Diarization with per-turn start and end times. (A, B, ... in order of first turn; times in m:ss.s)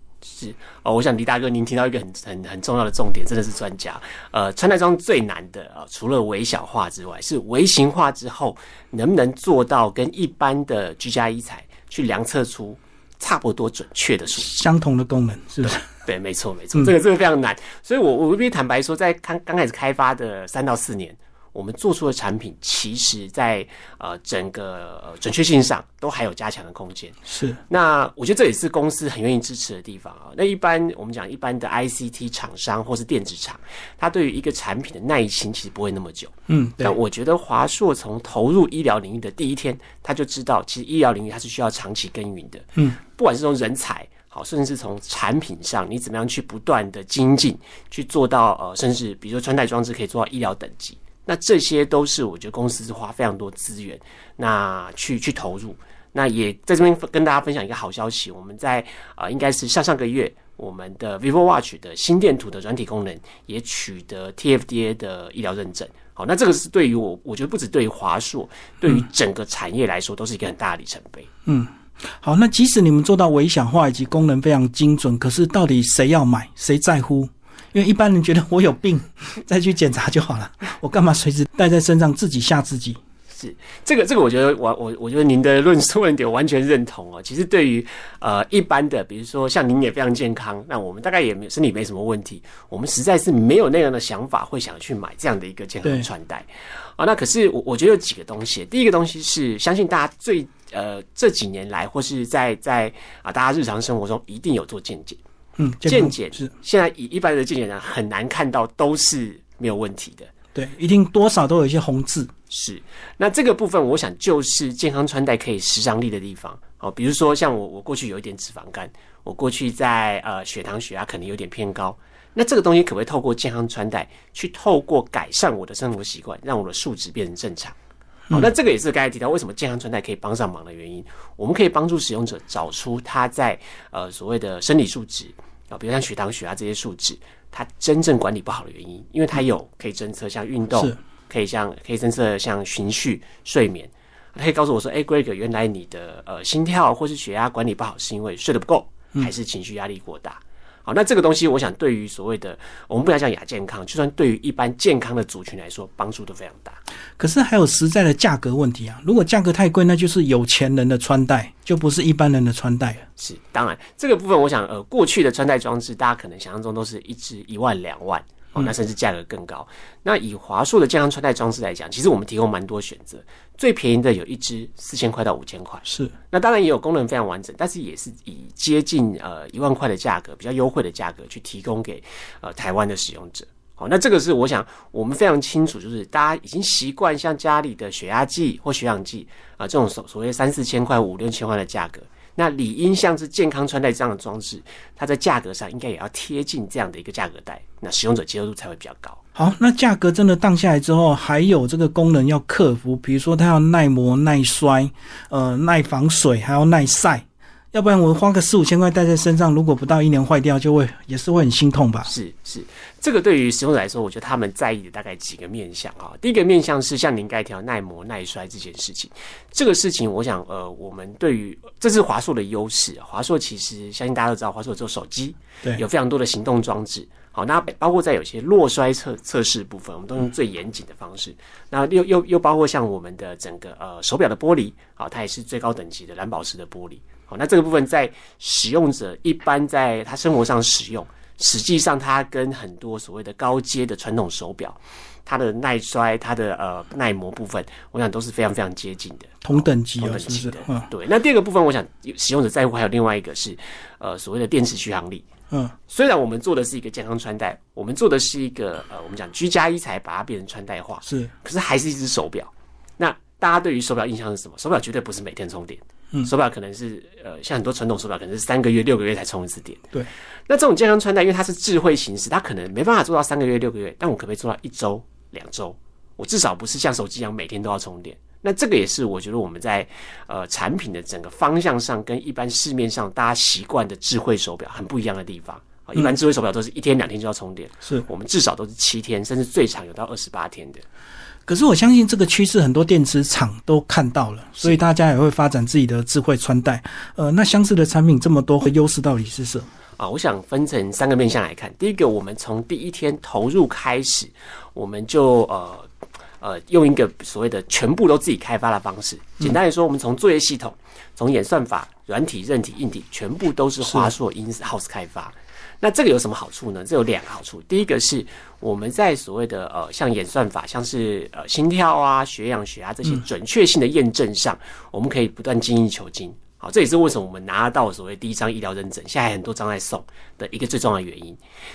0:00.2-0:14.5 A
0:14.4-0:15.9 B
0:15.6-1:11.3 A
0:27.3-0:27.6 B
0:36.5-0:37.0 B
1:11.4-1:23.0 B
1:23.3-1:45.2 A
1:45.6-1:46.5 B
1:45.8-1:50.3 A
1:50.5-1:52.3 B
1:52.5-2:07.8 A
2:08.3-2:36.8 A
2:37.2-2:43.1 B
2:43.2-3:19.2 A
2:55.8-2:56.1 B
3:19.3-3:32.1 B
3:32.0-4:15.2 A
4:09.4-4:10.9 B
4:15.9-4:29.9 A
4:21.1-4:21.3 B
4:30.5-4:50.8 A
4:51.5-4:59.7 B
5:00.0-5:31.4 A